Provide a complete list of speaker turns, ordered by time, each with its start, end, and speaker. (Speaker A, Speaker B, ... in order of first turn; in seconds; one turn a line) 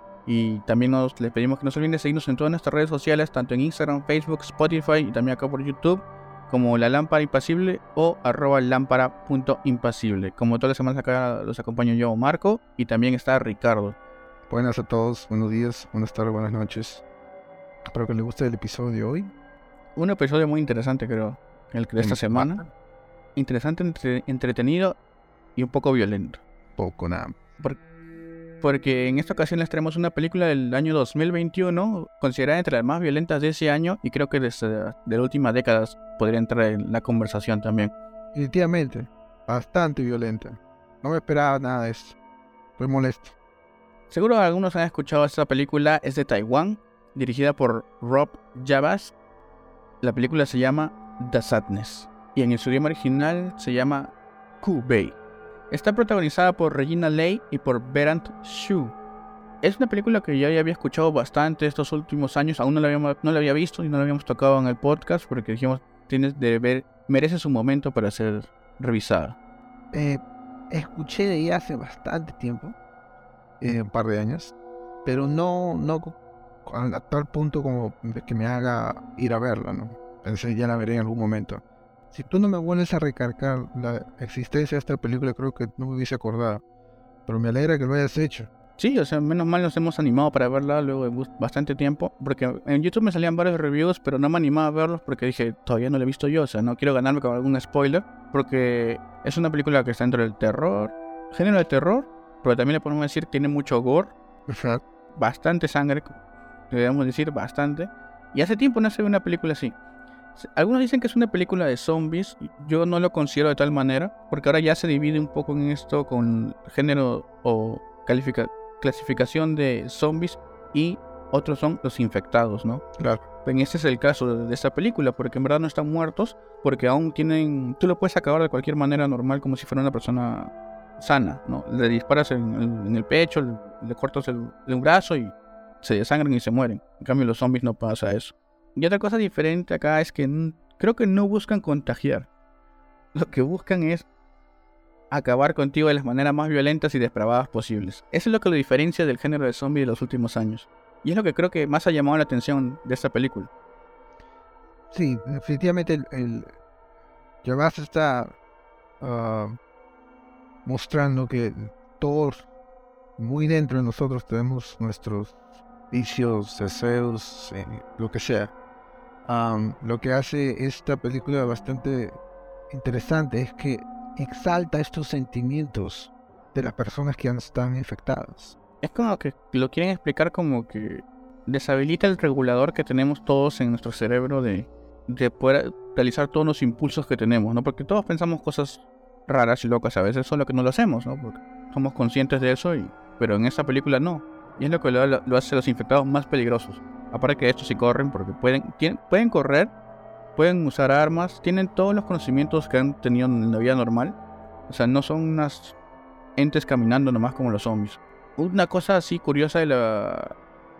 Speaker A: 0.2-13.9
Speaker B: 14.5-17.0
Speaker B: 17.9-19.3
Speaker A: 19.9-22.6
Speaker B: 22.0-22.7
Speaker A: 23.4-25.0
Speaker A: 25.6-26.4
Speaker B: 26.8-27.4
Speaker A: 28.6-37.9
Speaker B: 38.3-42.2
Speaker B: 42.8-43.4
Speaker A: 44.1-49.1
Speaker A: 50.0-55.2
Speaker A: 55.7-58.9
Speaker A: 59.6-69.4
Speaker B: 69.9-72.8
Speaker B: 73.6-74.5
Speaker B: 75.0-86.6
Speaker B: 87.2-88.5
Speaker A: 88.8-104.1
Speaker B: 104.5-104.8
Speaker A: 105.2-106.2
Speaker A: 106.7-109.8
Speaker A: 110.3-122.8
Speaker A: 123.4-142.3
Speaker A: 143.1-144.1
Speaker A: 145.1-153.5
Speaker B: 154.9-156.5
Speaker B: 157.4-158.3
Speaker B: 159.0-159.6
Speaker B: 160.6-162.4
Speaker B: 163.2-165.4
Speaker B: 165.9-168.5
Speaker B: 169.2-178.6
Speaker A: 178.8-199.7
Speaker A: 200.3-204.2
Speaker A: 204.7-205.8
Speaker A: 206.3-210.3